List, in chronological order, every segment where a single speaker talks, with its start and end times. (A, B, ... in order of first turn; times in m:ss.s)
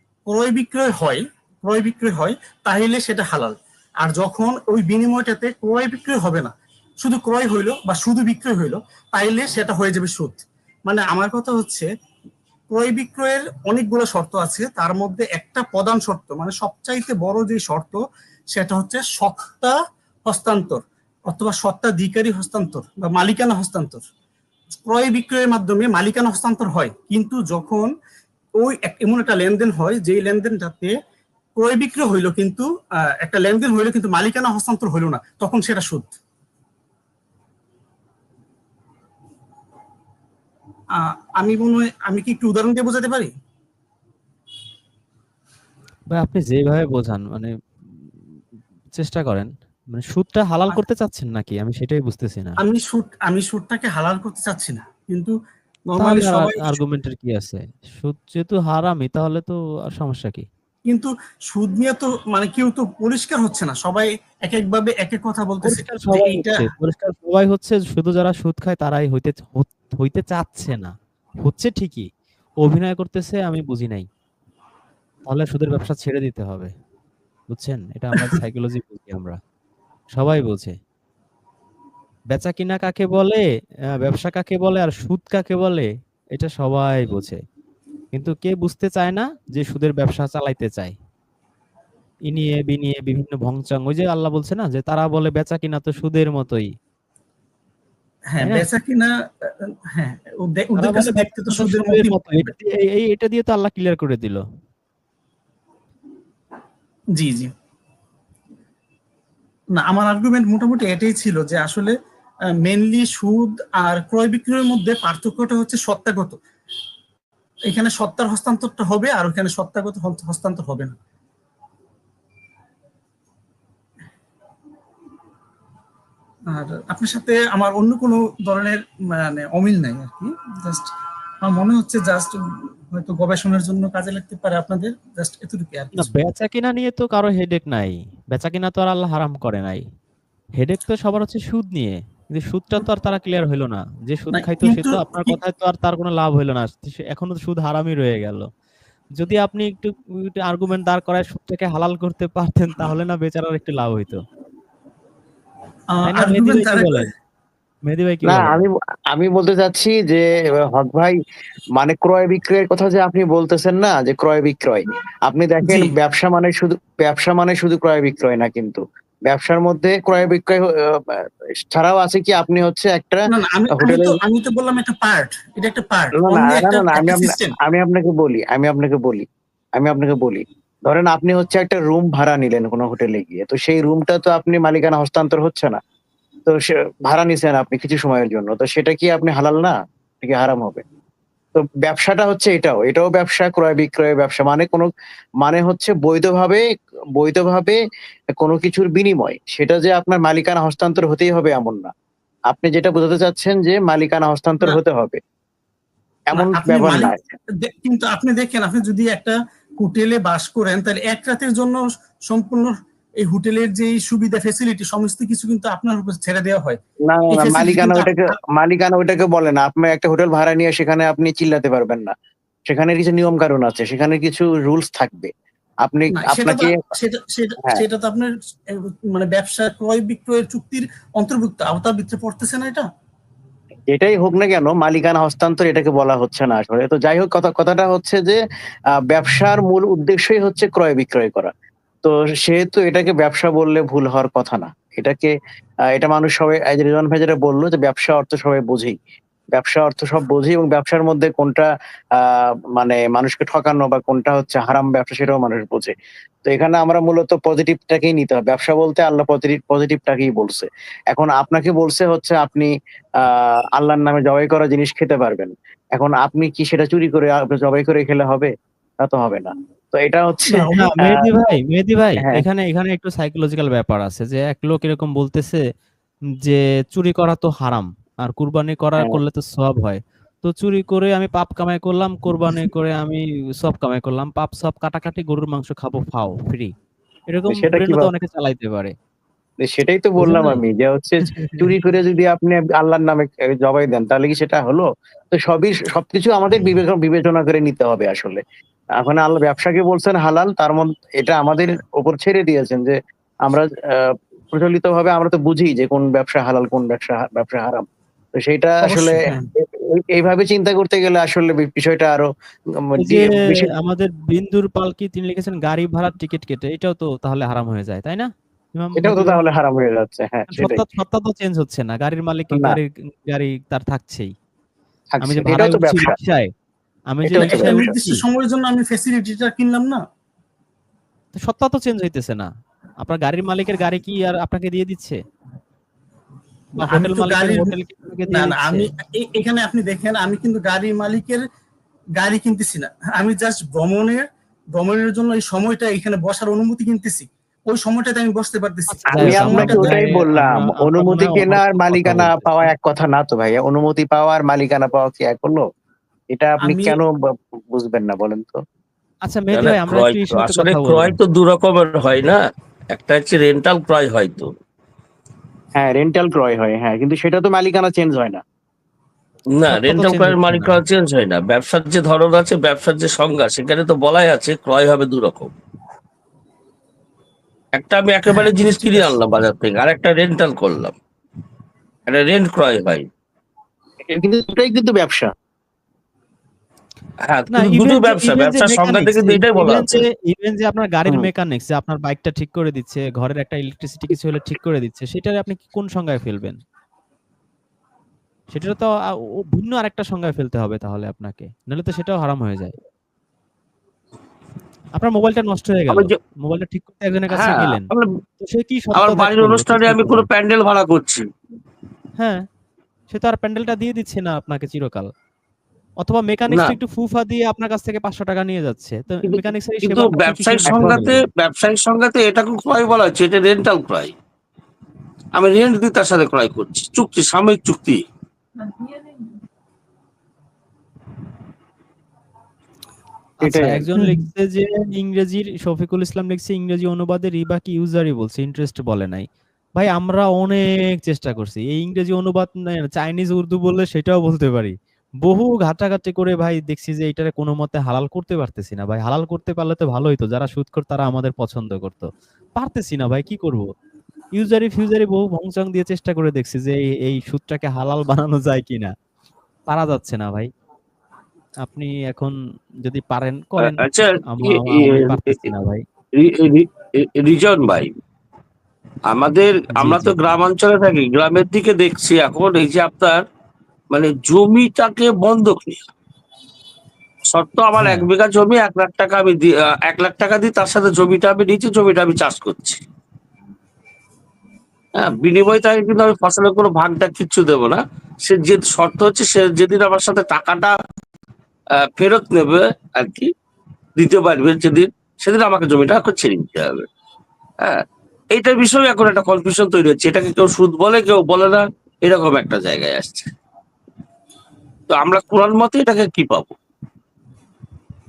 0:00.3-0:06.5 A
0:07.0-0:11.9 A
0:12.7-0:18.0 A
0:18.5-0:19.8 A
0:20.2-0:24.0 A
0:24.8-0:27.9 A
0:28.6-0:30.9 A
0:31.6-0:32.7 A
0:33.2-0:36.1 A
0:41.0-0:43.3 A
0:46.1-0:47.5 B
0:48.9-0:52.6 B
0:52.6-0:55.3 A
0:55.9-0:56.8 A
0:56.0-1:00.5 B
1:00.9-1:06.6 A
1:05.6-1:10.9 B
1:11.4-1:12.1 B
1:12.6-1:14.1 B
1:15.3-1:16.7 B
1:17.5-1:19.4 B
1:20.1-1:20.7 B
1:22.3-1:23.4 B
1:24.0-1:27.4 B
1:28.1-1:30.9 B
1:32.3-1:36.7 B
1:38.3-1:39.1 A
1:39.6-1:42.5 A
1:40.8-1:44.4 B
1:47.2-1:47.5 A
1:49.7-1:51.9 A
1:52.6-1:56.4 A
1:57.7-2:00.9 A
2:06.5-2:10.9 A
2:11.4-2:12.4 A
2:12.9-2:16.1 A
2:16.0-2:19.8 B
2:20.6-2:28.5 B
2:24.4-2:25.3 A
2:29.2-2:34.2 B
2:35.9-2:37.1 A
2:36.1-2:37.1 B
2:37.9-2:38.6 B
2:38.2-2:41.2 C
2:41.8-2:54.2 C
2:45.6-2:45.9 A
2:53.3-2:57.6 A
2:56.2-2:59.2 C
2:59.8-3:05.8 C
3:06.5-3:10.8 C
3:11.6-3:14.9 C
3:15.4-3:16.6 C
3:17.2-3:17.8 C
3:18.4-3:21.9 C
3:22.5-3:25.2 C
3:26.3-3:27.2 C
3:26.3-3:32.7 A
3:33.2-3:36.8 A
3:37.1-3:42.1 C
3:37.3-3:38.4 A
3:42.7-3:45.3 C
3:45.8-3:46.8 C
3:46.1-3:52.8 A
3:53.9-3:58.4 C
3:59.1-4:01.5 C
4:02.0-4:05.3 C
4:05.9-4:09.0 C
4:09.5-4:15.9 C
4:16.4-4:22.7 C
4:23.2-4:28.5 C
4:29.0-4:31.3 C
4:30.5-4:35.6 B
4:36.4-4:46.7 B
4:47.3-4:48.9 B
4:47.5-4:48.1 C
4:49.6-4:58.4 C
4:50.2-4:50.6 B
4:59.0-5:02.9 C
5:03.5-5:07.8 C
5:08.4-5:12.3 C
5:08.8-5:09.4 A
5:12.9-5:13.7 C
5:13.0-5:19.4 B
5:19.0-5:20.8 C
5:20.5-5:24.3 B
5:25.2-5:26.1 C
5:25.2-5:26.5 B
5:27.1-5:28.2 B
5:27.3-5:27.9 C
5:27.4-5:30.0 A
5:31.4-5:32.5 B
5:33.0-5:35.2 B
5:36.8-5:37.7 A
5:36.8-5:38.8 B
5:38.3-5:41.4 A
5:42.2-5:44.2 A
5:44.8-5:50.0 A
5:48.9-5:52.7 B
5:49.1-5:55.6 C
5:56.3-5:57.1 C
5:56.6-5:57.0 A
5:57.7-5:58.6 C
5:59.2-6:01.2 B
5:59.5-6:02.4 D
6:02.9-6:04.5 D
6:05.8-6:08.4 C
6:09.6-6:15.5 D
6:09.7-6:10.8 B
6:17.8-6:21.0 D
6:22.1-6:23.1 D
6:24.1-6:25.3 C
6:27.3-6:30.0 D
6:27.5-6:36.6 B
6:38.5-6:38.9 B
6:39.5-6:42.7 B
6:45.0-6:47.9 B
6:45.9-6:46.2 D
6:47.3-6:48.1 D
6:48.4-6:50.2 B
6:49.0-6:51.2 D
6:53.1-6:55.1 B
6:56.0-7:01.2 B
6:56.5-6:56.8 D
6:59.2-7:04.1 D
7:00.7-7:01.1 C
7:05.4-7:08.0 D
7:13.4-7:33.6 B
7:13.4-7:13.9 C
7:34.4-7:38.9 B
7:39.7-7:40.5 B
7:41.6-7:45.8 B
7:43.6-7:45.5 D
7:46.2-7:47.9 D
7:49.1-7:53.2 D
7:49.8-7:50.2 B
7:53.9-7:55.8 D
7:57.3-8:02.8 D
7:57.8-7:58.1 B
8:05.0-8:10.7 D
8:11.9-8:13.3 D
8:14.0-8:16.9 D
8:17.6-8:23.3 D
8:24.9-8:26.5 D